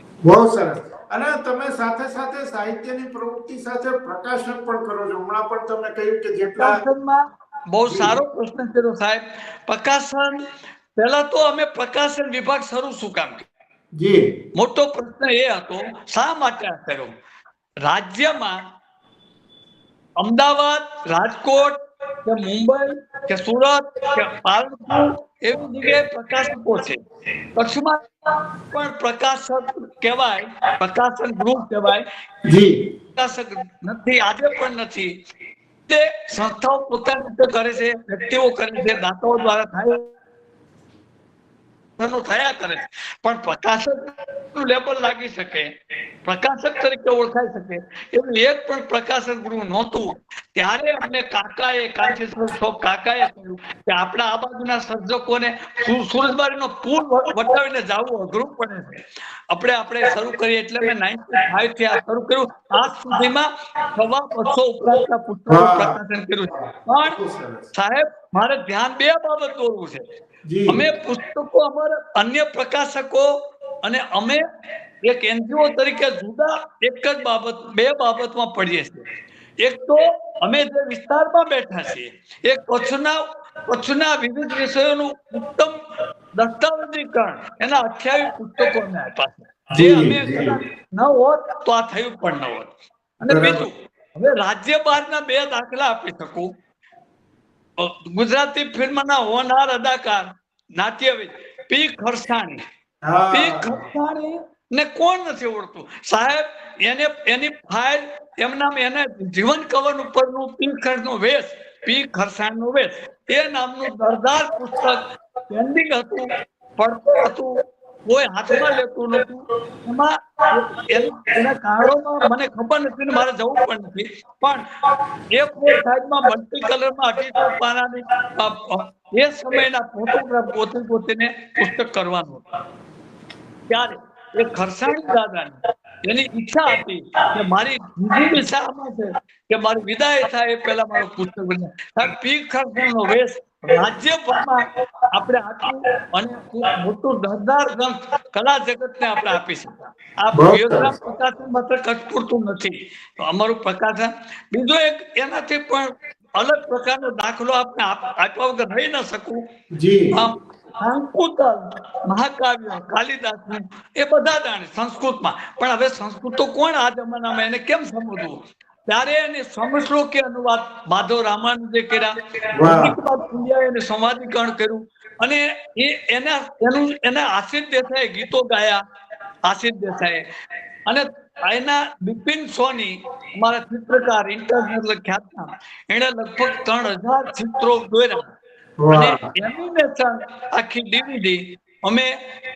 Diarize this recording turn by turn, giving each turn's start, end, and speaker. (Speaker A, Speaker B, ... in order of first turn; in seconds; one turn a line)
Speaker A: 0.2-6.8
Speaker B: 6.5-10.4
Speaker A: 7.8-8.2
Speaker B: 10.9-13.5
Speaker A: 13.9-14.2
Speaker B: 14.5-17.1
Speaker B: 17.8-18.6
Speaker B: 20.2-27.0
Speaker B: 27.5-28.0
Speaker B: 28.7-32.0
Speaker A: 32.5-32.7
Speaker B: 33.1-35.1
Speaker B: 35.9-40.1
Speaker B: 42.0-45.7
Speaker B: 46.2-67.2
Speaker A: 65.5-67.7
Speaker B: 67.7-70.0
Speaker A: 70.4-70.8
Speaker B: 70.7-73.3
Speaker B: 73.8-74.4
Speaker B: 75.0-79.0
Speaker B: 79.6-85.7
Speaker B: 86.3-96.5
Speaker A: 89.7-90.6
Speaker A: 93.2-93.7
Speaker B: 97.8-102.6
Speaker A: 103.0-103.8
Speaker B: 103.3-124.6
Speaker B: 125.3-132.4
Speaker B: 133.7-159.4
Speaker A: 150.3-150.9
Speaker A: 159.8-160.2
Speaker B: 160.1-178.8
Speaker A: 172.5-172.9
Speaker B: 179.4-180.3
Speaker B: 180.8-188.3
Speaker A: 188.8-189.3
Speaker B: 188.9-192.2